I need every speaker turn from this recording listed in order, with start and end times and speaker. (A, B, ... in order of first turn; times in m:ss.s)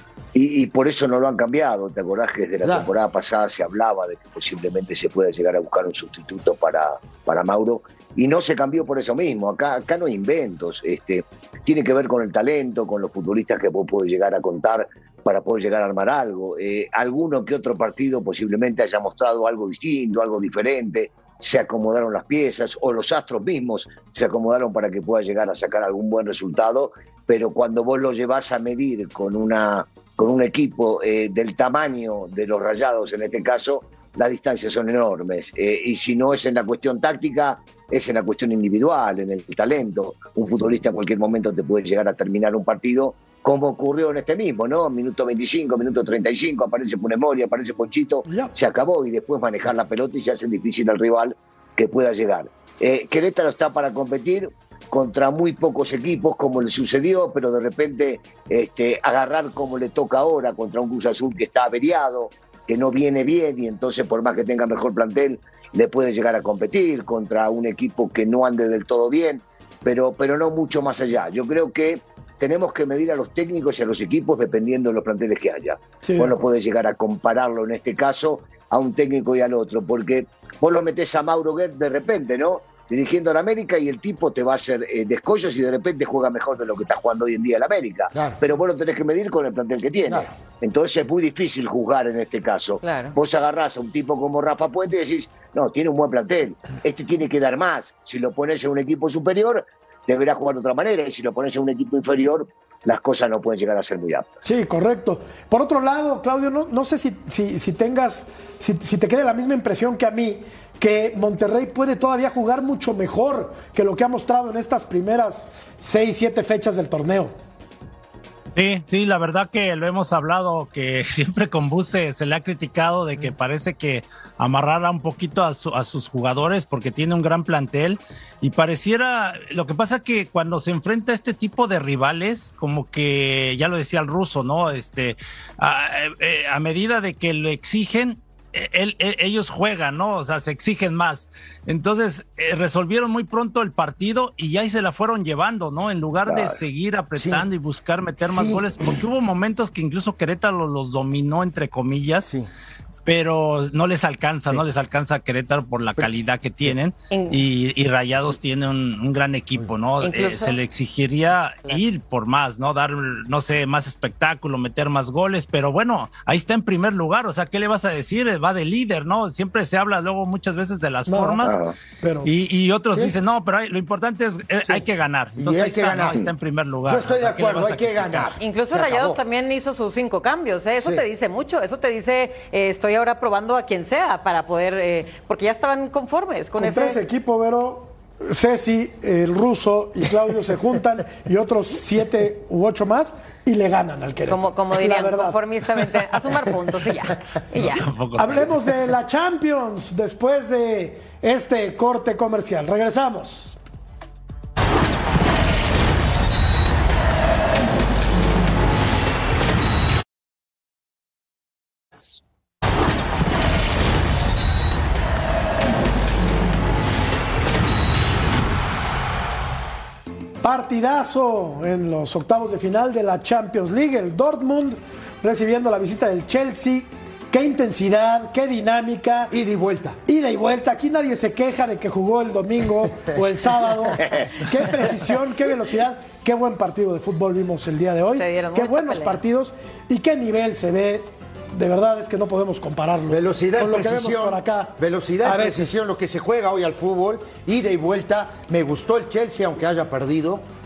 0:00.4-1:44.3 A
0:02.6-0:02.9 B
0:48.3-0:48.5 C
1:16.0-1:16.3 C
1:28.1-1:28.4 B
1:30.1-1:30.3 B
1:32.8-1:33.2 D
1:44.4-1:57.3 C
1:58.6-2:32.3 E
2:26.3-2:26.6 A
2:27.2-2:27.5 B
2:28.2-2:29.0 B
2:32.2-2:32.5 B
2:33.1-2:51.6 E
2:37.1-2:37.4 D
2:40.0-2:40.6 D
2:51.1-2:52.3 C
2:51.4-2:51.8 A
2:52.2-2:58.3 E
2:55.4-2:56.3 B
2:56.9-2:59.2 B
2:58.4-3:07.0 D
3:00.8-3:01.0 B
3:06.6-3:15.4 C
3:14.3-3:17.9 D
3:17.6-3:18.6 E
3:18.2-3:23.6 C
3:40.4-3:49.3 C
3:49.3-3:50.0 B
3:50.1-4:05.8 C
3:58.2-3:59.2 D
4:03.1-4:10.4 B